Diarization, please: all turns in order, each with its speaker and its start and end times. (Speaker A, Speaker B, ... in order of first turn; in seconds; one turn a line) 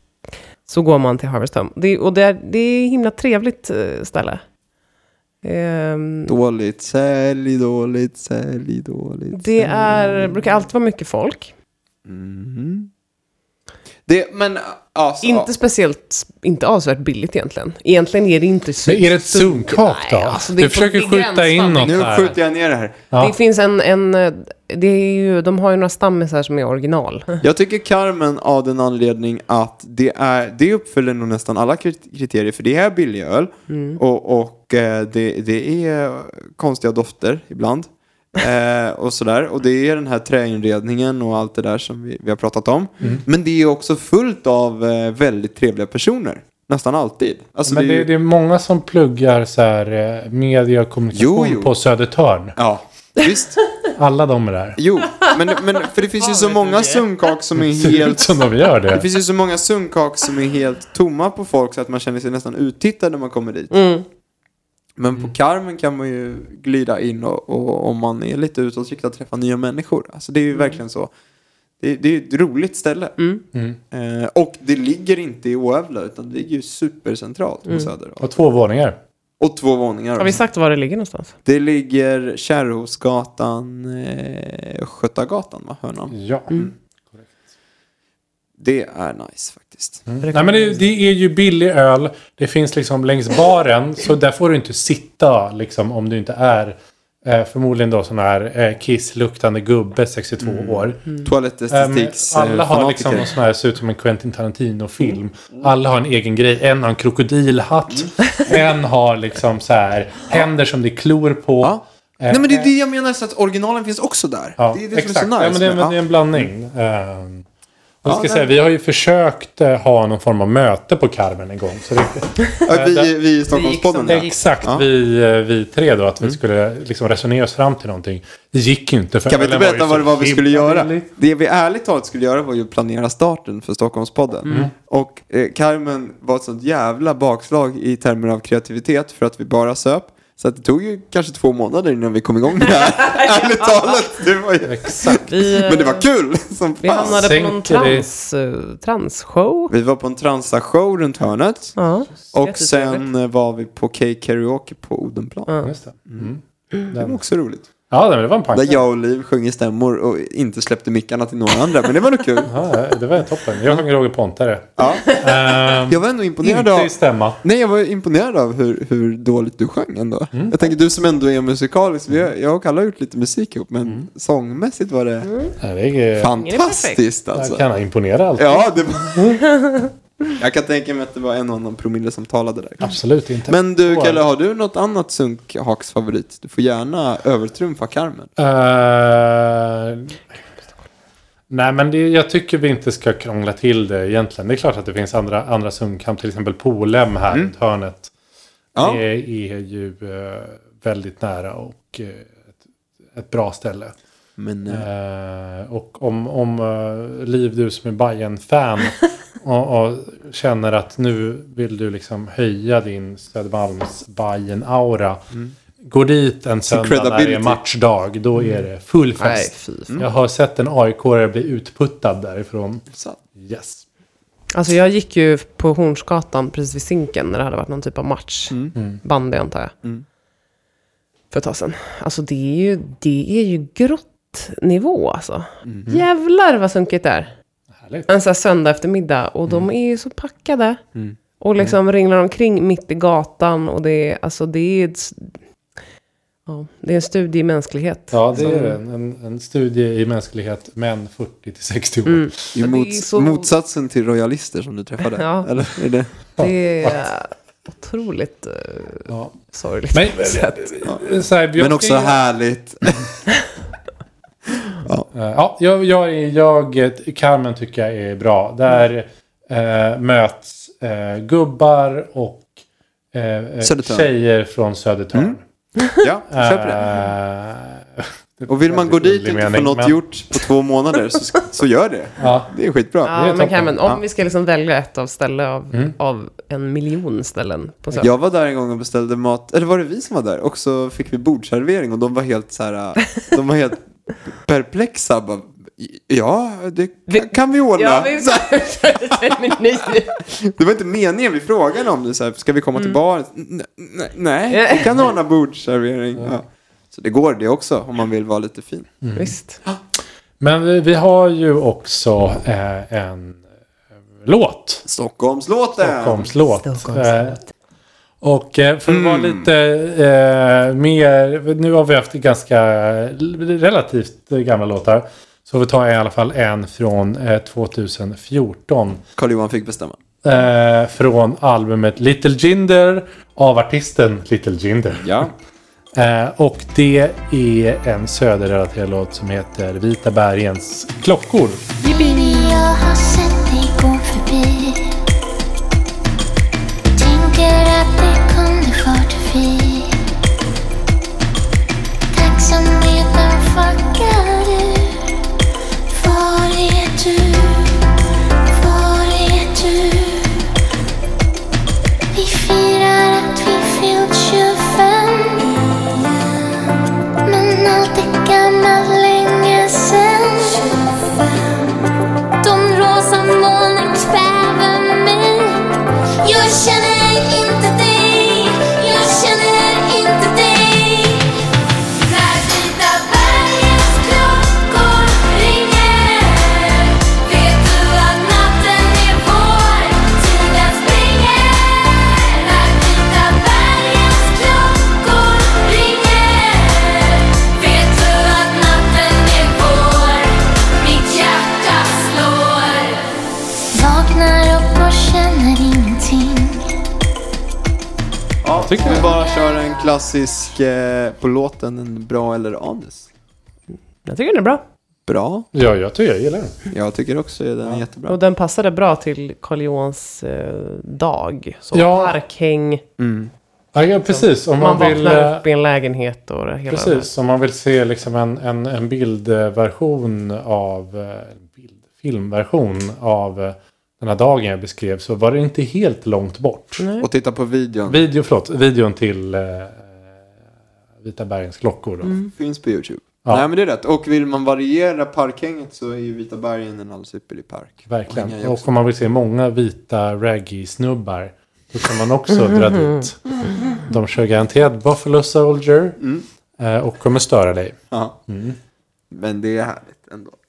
Speaker A: 0.7-4.4
Speaker A: 5.4-6.3
Speaker B: 6.2-10.1
Speaker A: 9.3-11.5
Speaker B: 12.0-12.9
Speaker B: 14.1-15.5
Speaker A: 15.2-22.3
Speaker C: 18.9-22.4
Speaker B: 21.8-23.0
Speaker A: 23.2-27.4
Speaker B: 27.4-48.1
Speaker A: 33.7-34.0
Speaker C: 47.6-52.6
Speaker B: 51.1-51.7
Speaker B: 52.5-53.6
Speaker C: 53.9-54.8
Speaker B: 54.8-58.3
Speaker A: 56.2-57.1
Speaker C: 57.6-59.1
Speaker B: 58.9-63.7
Speaker A: 63.7-64.0
Speaker B: 65.0-71.1
Speaker A: 70.5-70.8
Speaker B: 71.8-73.1
Speaker A: 73.2-73.4
Speaker C: 73.5-73.8
Speaker B: 73.9-78.2
Speaker C: 78.2-79.0
Speaker B: 79.4-80.4
Speaker A: 80.2-81.3
Speaker B: 81.4-86.7
Speaker C: 86.1-87.3
Speaker B: 88.6-90.0
Speaker C: 90.1-101.0
Speaker A: 90.2-90.8
Speaker B: 100.4-103.3
Speaker C: 101.7-112.7
Speaker B: 111.6-116.5
Speaker C: 114.6-117.5
Speaker C: 118.0-123.1
Speaker B: 118.0-118.5
Speaker B: 122.6-124.8
Speaker A: 123.5-124.4
Speaker C: 124.1-131.1
Speaker B: 129.3-147.2
Speaker C: 134.5-134.7
Speaker A: 142.6-144.1
Speaker C: 144.6-145.3
Speaker A: 145.3-146.1
Speaker A: 146.8-149.7
Speaker C: 147.0-148.1
Speaker B: 149.7-155.5
Speaker A: 151.8-153.1
Speaker A: 155.5-155.7
Speaker C: 155.6-157.2
Speaker B: 156.1-156.3
Speaker B: 156.9-157.7
Speaker C: 157.9-158.8
Speaker B: 158.5-162.5
Speaker C: 162.4-167.4
Speaker B: 164.8-165.2
Speaker B: 165.7-175.3
Speaker A: 175.3-175.5
Speaker C: 175.6-176.3
Speaker B: 176.2-177.6
Speaker A: 176.3-177.0
Speaker C: 177.3-179.4
Speaker B: 178.4-179.4
Speaker A: 179.4-179.9
Speaker B: 180.3-188.3
Speaker C: 182.8-184.2
Speaker C: 188.4-190.2
Speaker C: 191.5-198.1
Speaker B: 198.7-199.0
Speaker C: 198.8-202.4
Speaker C: 203.1-203.9
Speaker B: 204.4-204.8
Speaker C: 204.7-215.2
Speaker C: 215.8-222.8
Speaker B: 216.7-217.6
Speaker A: 219.2-219.9
Speaker B: 222.9-223.2
Speaker C: 223.4-223.8
Speaker A: 224.5-229.7
Speaker A: 231.3-237.3
Speaker C: 237.8-238.1
Speaker A: 238.1-240.8
Speaker A: 241.4-245.4
Speaker A: 246.4-248.8
Speaker C: 248.1-252.3
Speaker A: 252.1-253.5
Speaker B: 252.5-256.1
Speaker A: 255.1-255.5
Speaker C: 256.4-257.1
Speaker A: 256.4-260.8
Speaker C: 259.1-259.4
Speaker C: 259.9-262.2
Speaker B: 261.6-263.1
Speaker B: 264.5-265.1
Speaker C: 265.1-272.5
Speaker C: 273.1-275.4
Speaker B: 273.6-274.1
Speaker B: 275.1-275.4
Speaker B: 275.9-276.9
Speaker C: 276.3-280.0
Speaker B: 278.5-283.1
Speaker C: 282.2-282.5
Speaker A: 283.0-288.1
Speaker C: 283.1-283.8
Speaker B: 287.9-299.5
Speaker A: 297.1-300.2
Speaker B: 300.2-308.9
Speaker A: 304.5-305.0
Speaker C: 309.0-309.4
Speaker A: 309.1-309.6
Speaker C: 310.4-313.4
Speaker C: 314.2-314.8
Speaker B: 314.8-316.3
Speaker C: 315.8-317.4
Speaker A: 316.7-317.1
Speaker C: 318.2-329.0
Speaker B: 318.9-319.5
Speaker B: 329.1-330.0
Speaker C: 330.2-335.3
Speaker B: 334.9-335.3
Speaker C: 335.9-341.7
Speaker D: 341.8-345.0
Speaker D: 346.9-350.0
Speaker D: 352.1-355.1
Speaker D: 355.9-357.9
Speaker D: 358.5-360.5
Speaker D: 362.1-366.4
Speaker D: 367.2-371.7
Speaker D: 372.4-375.7
Speaker D: 376.2-403.1
Speaker D: 403.7-406.7
Speaker B: 408.4-413.1
Speaker C: 408.6-409.1
Speaker D: 409.1-409.5
Speaker A: 414.0-414.6
Speaker B: 415.1-415.5
Speaker C: 415.5-416.6
Speaker B: 416.7-418.2
Speaker A: 418.1-422.8
Speaker C: 421.7-422.1
Speaker B: 423.0-423.3
Speaker C: 423.7-425.4
Speaker A: 424.1-427.1
Speaker C: 426.7-436.8
Speaker A: 436.8-437.1
Speaker B: 437.0-438.0
Speaker C: 437.9-440.0
Speaker C: 441.0-442.2
Speaker A: 442.0-442.3
Speaker B: 442.3-448.6
Speaker C: 447.9-456.0
Speaker A: 452.5-452.9
Speaker B: 456.0-456.2
Speaker C: 456.6-458.6
Speaker B: 457.9-458.2
Speaker B: 459.1-460.4